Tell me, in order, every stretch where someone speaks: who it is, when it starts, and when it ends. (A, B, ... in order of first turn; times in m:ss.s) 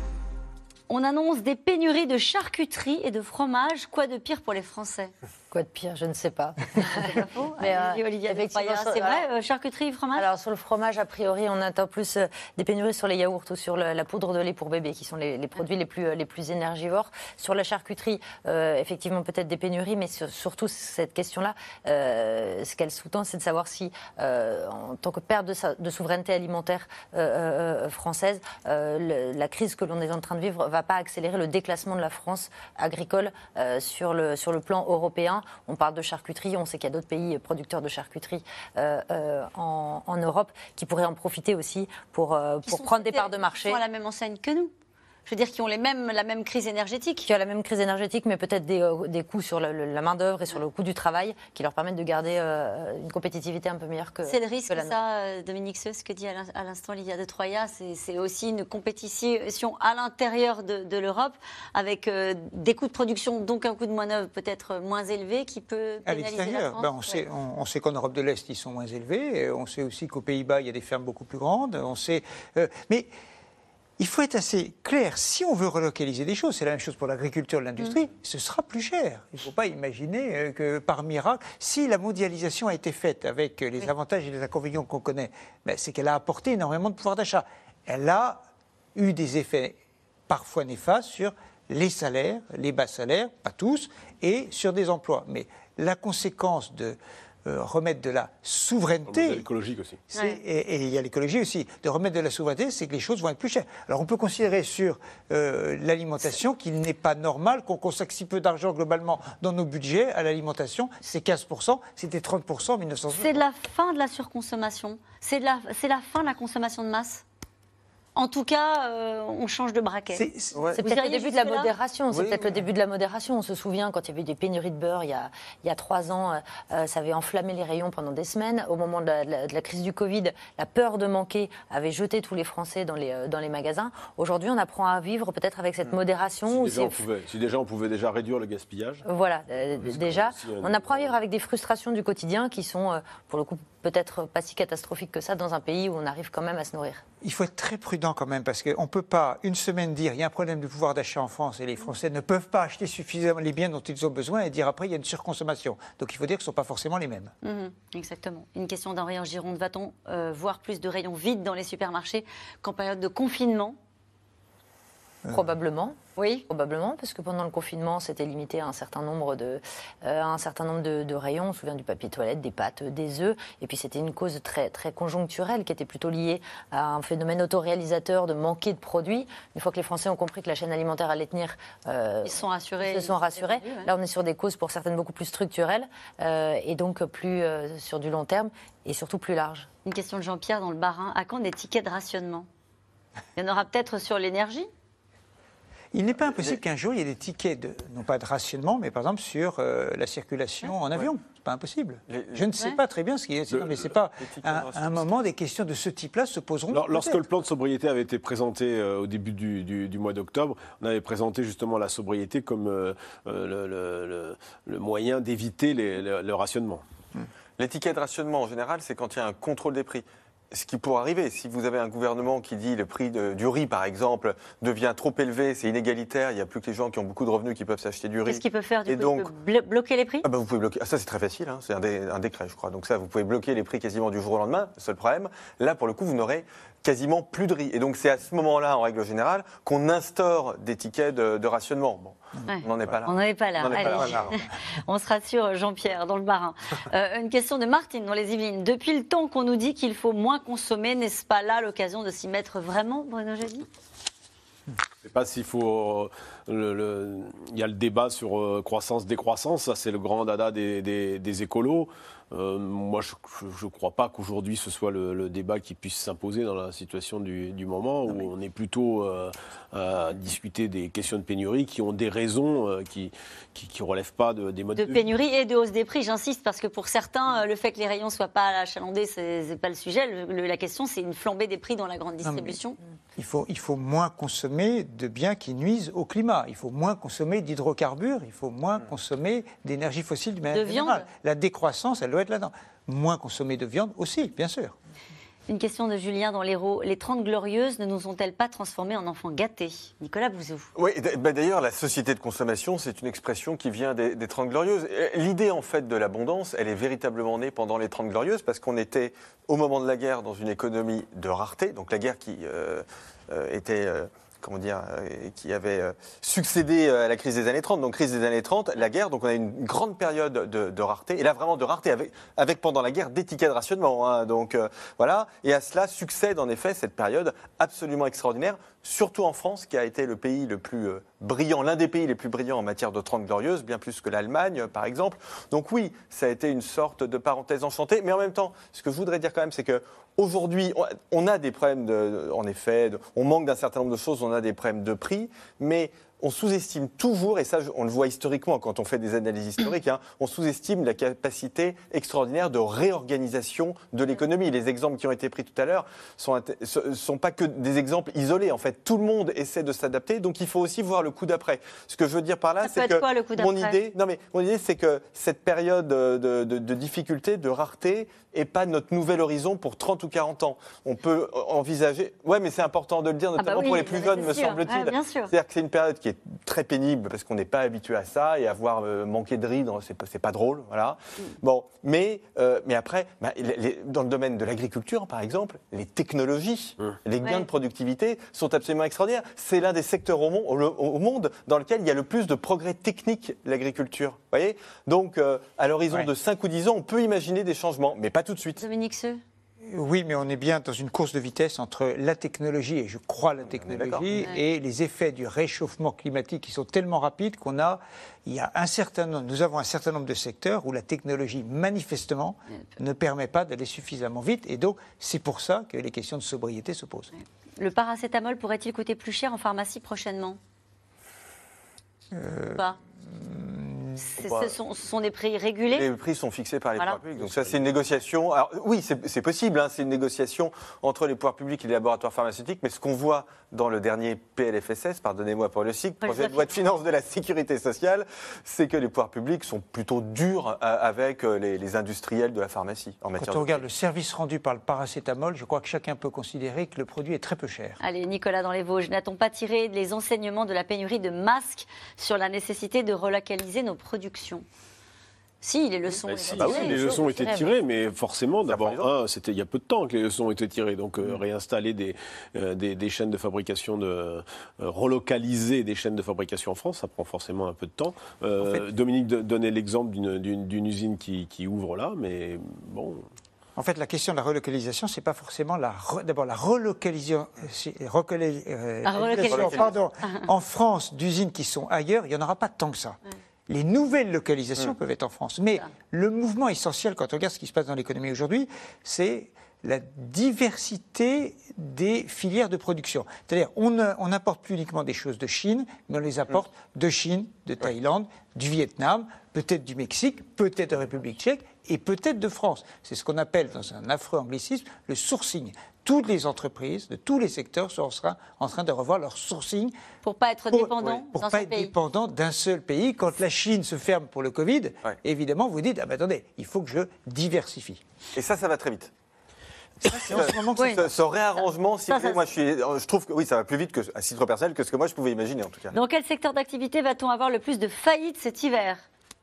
0:00.9-0:05.1 A
0:05.5-0:09.2 B
0:06.8-0:10.3 A
0:10.1-0:43.8 B
0:42.6-0:44.7 A
0:45.2-0:47.3 A
0:47.2-0:55.0 B
0:54.2-1:07.2 A
1:06.0-1:13.1 C
1:14.0-1:28.4 C
1:29.0-1:29.7 C
1:30.3-1:39.5 C
1:39.1-1:40.0 D
1:40.1-1:53.4 C
1:40.1-1:40.4 A
1:53.1-1:57.2 A
1:58.1-2:01.7 A
2:00.1-2:00.6 C
2:00.5-2:00.8 E
2:00.8-2:17.0 B
2:02.1-2:02.6 E
2:16.4-2:19.0 D
2:19.0-2:27.0 B
2:19.7-2:21.1 D
2:27.2-2:37.3 C
2:37.4-2:43.8 A
2:45.3-2:46.0 B
2:46.2-2:46.4 A
2:46.5-3:09.7 B
3:02.2-3:03.9 A
3:09.8-3:12.5 A
3:13.4-3:14.7 A
3:15.9-3:27.2 C
3:22.1-3:22.4 E
3:23.5-3:23.9 D
3:24.2-3:25.2 E
3:26.7-3:36.8 D
3:37.6-3:49.3 E
3:48.2-3:50.2 A
3:50.2-4:04.3 E
4:02.4-4:13.7 A
4:03.7-4:04.4 C
4:15.0-4:35.0 D
4:34.7-4:42.8 A
4:42.2-4:42.6 C
4:43.2-4:54.7 C
4:50.5-4:51.0 A
4:55.5-5:00.7 A
5:00.7-6:38.6 E
6:02.6-6:03.8 A
6:13.4-6:15.3 A
6:27.2-6:27.5 A
6:38.6-6:39.2 A
6:39.6-6:57.1 C
6:43.4-6:44.1 E
6:57.2-7:00.4 A
7:02.1-7:04.0 C
7:04.0-7:05.9 A
7:04.2-7:04.5 E
7:05.7-7:23.6 E
7:07.2-7:07.7 C
7:16.0-7:16.5 A
7:23.2-7:27.8 C
7:27.8-7:34.4 A
7:35.4-7:37.0 A
7:36.0-7:53.0 D
7:36.4-7:37.5 B
7:38.4-7:38.9 E
7:48.4-7:48.6 C
7:53.6-8:29.7 C
7:58.8-7:59.7 A
7:59.3-7:59.8 E
8:30.0-8:31.7 A
8:30.5-8:37.8 C
8:38.1-8:38.9 E
8:39.8-8:45.7 E
8:39.8-8:40.9 C
8:40.6-8:40.8 A
8:41.9-8:42.3 A
8:45.7-8:48.8 A